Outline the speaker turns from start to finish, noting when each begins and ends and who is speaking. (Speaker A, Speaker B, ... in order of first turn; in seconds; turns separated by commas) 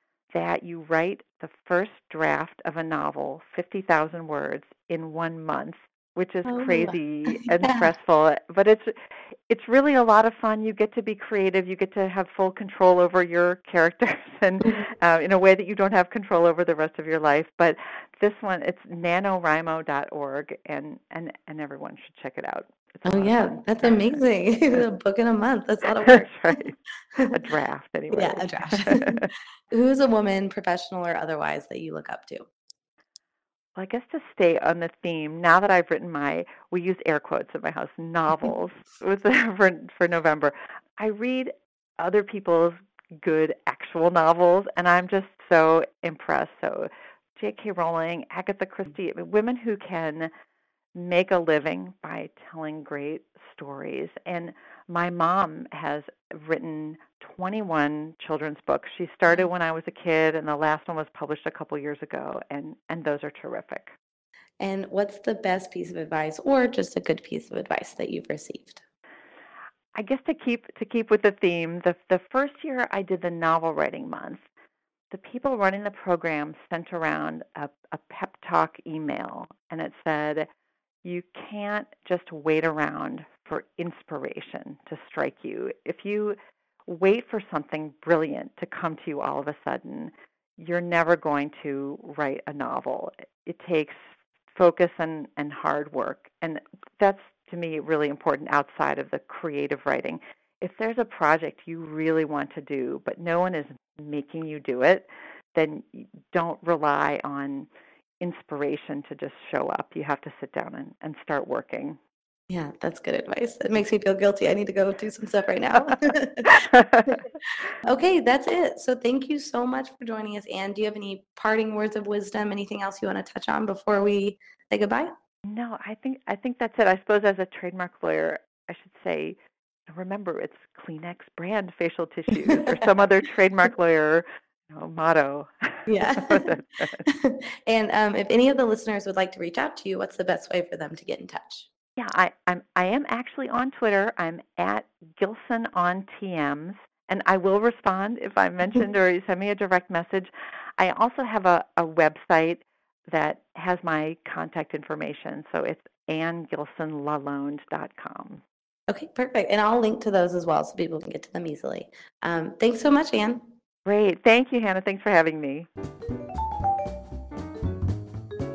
Speaker A: 0.3-9.0, Speaker B: 6.5-7.9, Speaker A: 9.5-24.1, Speaker B: 23.1-26.6, Speaker A: 25.9-29.3, Speaker B: 28.1-32.5, Speaker A: 33.8-50.3, Speaker A: 51.0-63.9, Speaker B: 64.6-68.8, Speaker A: 70.0-74.4, Speaker A: 75.1-80.5, Speaker A: 81.0-107.7, Speaker A: 108.2-112.0, Speaker B: 112.5-117.2, Speaker A: 116.4-117.3, Speaker B: 117.8-125.1, Speaker A: 125.5-129.4, Speaker A: 129.9-137.1, Speaker B: 132.5-132.8, Speaker B: 135.9-141.7, Speaker A: 142.0-158.4, Speaker B: 158.9-163.5, Speaker A: 163.9-165.7